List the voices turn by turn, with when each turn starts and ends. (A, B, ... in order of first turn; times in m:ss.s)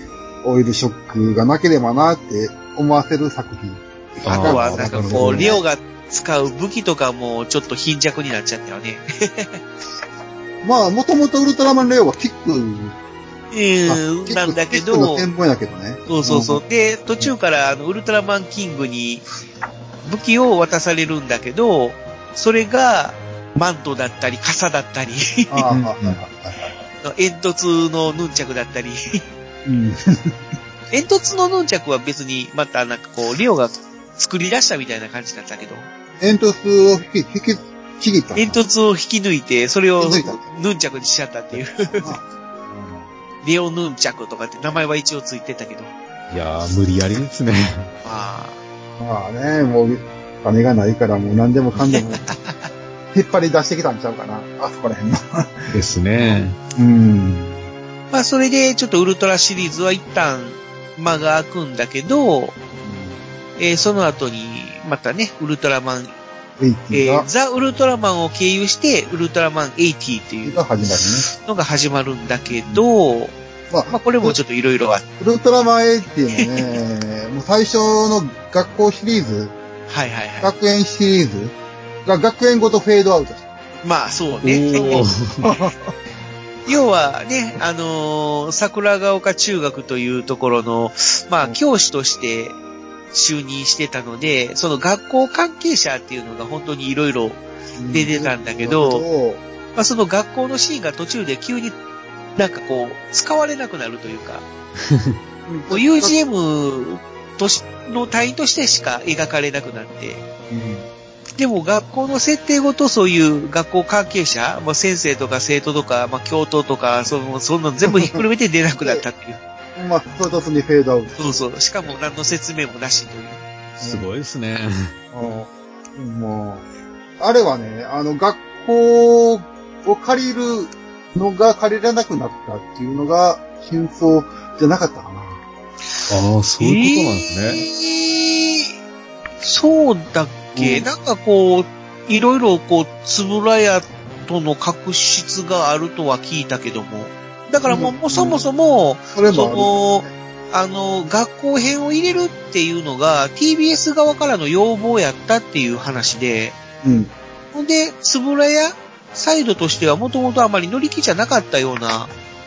0:00.4-0:05.6 A
0:04.3-0:05.6 B
0:04.3-0:09.6 C
0:10.6-0:13.0 A
0:13.5-0:15.3 C
0:13.9-0:16.6 A
0:16.1-0:19.2 C
0:20.0-0:25.6 C
0:25.5-0:26.7 A
0:25.7-0:26.2 B
0:27.0-0:29.2 C
0:29.6-0:30.4 A
0:30.9-0:35.9 C
0:36.2-0:38.6 A
0:38.4-0:42.2 C
0:40.0-0:40.4 A
0:41.5-0:43.1 A
0:43.4-0:45.9 C
0:46.3-0:47.9 B
0:48.0-0:48.6 C
0:49.0-0:52.2 A
0:51.9-0:52.6 C
0:53.1-0:57.7 A
0:55.7-0:56.6 B
0:58.1-1:02.6 C
1:02.8-1:03.2 A
1:03.6-1:06.2 C
1:06.6-1:07.3 A
1:06.9-1:13.4 C
1:10.4-1:11.3 A
1:12.5-1:12.8 A
1:13.7-1:14.4 A
1:13.9-1:15.0 C
1:15.2-1:19.6 A
1:16.3-1:16.8 C
1:19.9-1:20.5 C
1:20.4-1:21.5 A
1:22.0-1:23.5 A
1:23.8-1:25.1 C
1:24.4-1:25.5 B
1:24.7-1:25.9 A
1:26.7-1:32.6 C
1:33.1-1:39.0 C
1:37.8-1:39.4 A
1:39.8-1:41.8 C
1:42.4-1:44.5 C
1:44.9-1:45.2 B
1:45.5-1:46.2 A
1:45.7-1:50.2 C
1:50.5-1:50.8 B
1:51.4-1:59.4 C
1:57.9-1:58.2 A
1:59.8-2:01.3 A
2:01.2-2:03.4 C
2:03.8-2:04.9 B
2:03.8-2:04.1 A
2:05.1-2:06.6 A
2:07.2-2:15.4 A
2:16.1-2:17.6 B
2:16.6-2:18.7 C
2:19.4-2:36.6 C
2:20.5-2:20.9 A
2:27.7-2:28.4 A
2:29.1-2:30.1 A
2:36.8-2:37.1 A
2:37.5-2:42.1 C